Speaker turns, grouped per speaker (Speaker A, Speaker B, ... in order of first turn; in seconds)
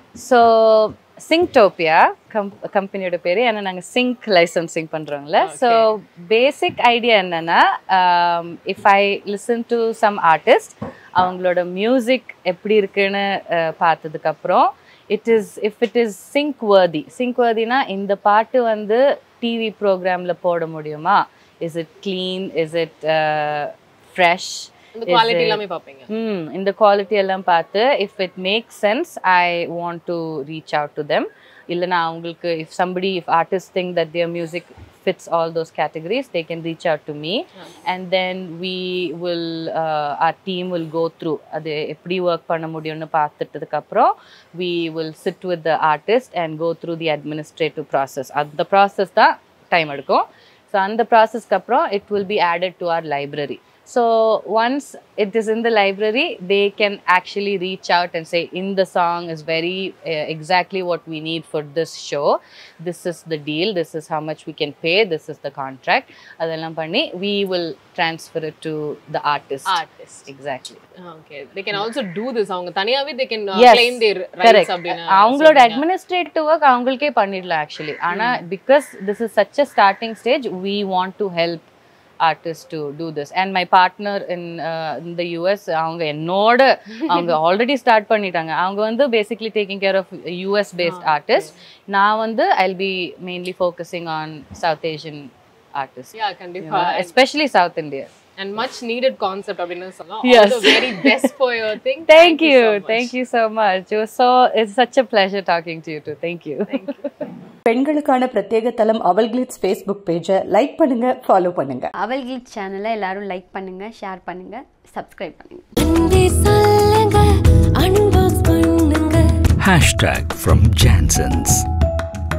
Speaker A: 0.2-70.8, 73.5-81.7, 82.2-98.1, 100.2-101.3, 102.1-107.1
Speaker B: 5.4-5.9, 24.9-26.1, 69.7-70.3, 71.0-75.8, 78.1-78.4, 87.1-87.4, 90.8-91.5, 96.1-97.1, 98.4-103.1, 106.7-107.0
Speaker C: 107.7-111.9, 119.6-121.6
Speaker D: 112.0-115.7
Speaker E: 115.8-119.2